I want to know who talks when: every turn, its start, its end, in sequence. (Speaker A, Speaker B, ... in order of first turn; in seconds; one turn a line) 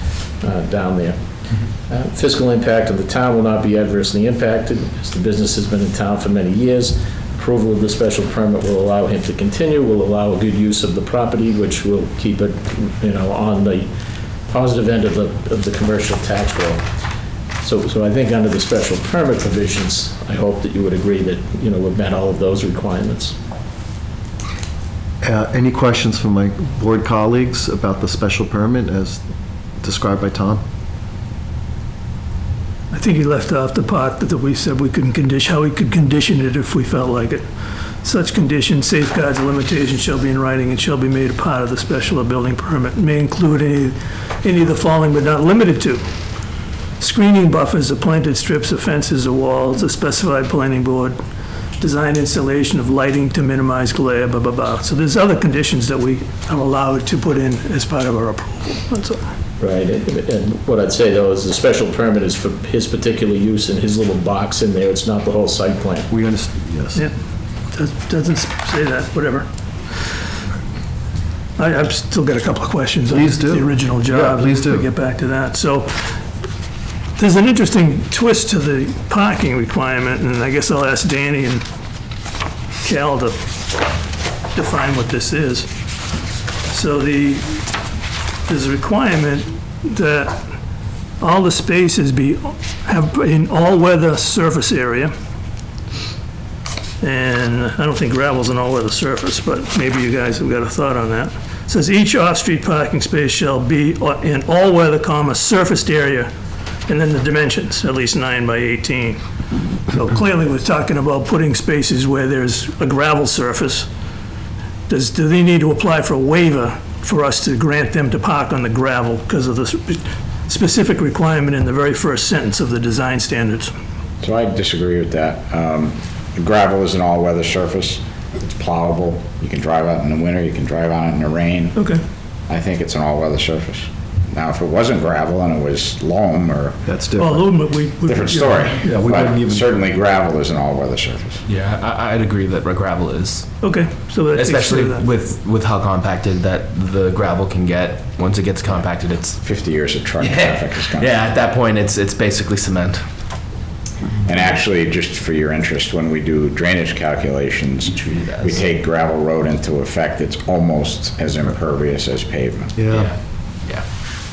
Speaker A: 0.4-1.2
Speaker A: 1.9-13.9
Speaker A: 14.5-16.8
Speaker A: 17.6-23.4
Speaker B: 25.2-29.2
Speaker B: 29.8-30.6
Speaker C: 32.9-37.4
Speaker C: 38.0-46.0
Speaker C: 47.0-51.2
Speaker C: 51.8-59.3
Speaker A: 59.6-66.1
Speaker B: 66.1-67.0
Speaker C: 67.7-69.5
Speaker C: 71.6-76.1
Speaker B: 73.1-74.8
Speaker C: 77.2-81.6
Speaker C: 82.8-83.3
Speaker C: 84.5-85.7
Speaker C: 86.7-87.6
Speaker C: 88.5-90.4
Speaker C: 91.2-95.1
Speaker C: 97.0-106.3
Speaker C: 106.9-109.2
Speaker C: 109.9-113.9
Speaker C: 114.9-123.7
Speaker D: 124.2-131.8
Speaker D: 132.5-136.8
Speaker B: 136.8-137.5
Speaker C: 137.2-138.8
Speaker D: 138.1-141.4
Speaker B: 138.8-139.7
Speaker E: 141.5-143.5
Speaker C: 143.6-145.1
Speaker E: 144.3-149.4
Speaker D: 149.4-151.2
Speaker E: 150.2-153.0
Speaker D: 154.2-162.7
Speaker E: 157.8-158.7
Speaker B: 162.8-163.1
Speaker E: 162.9-163.8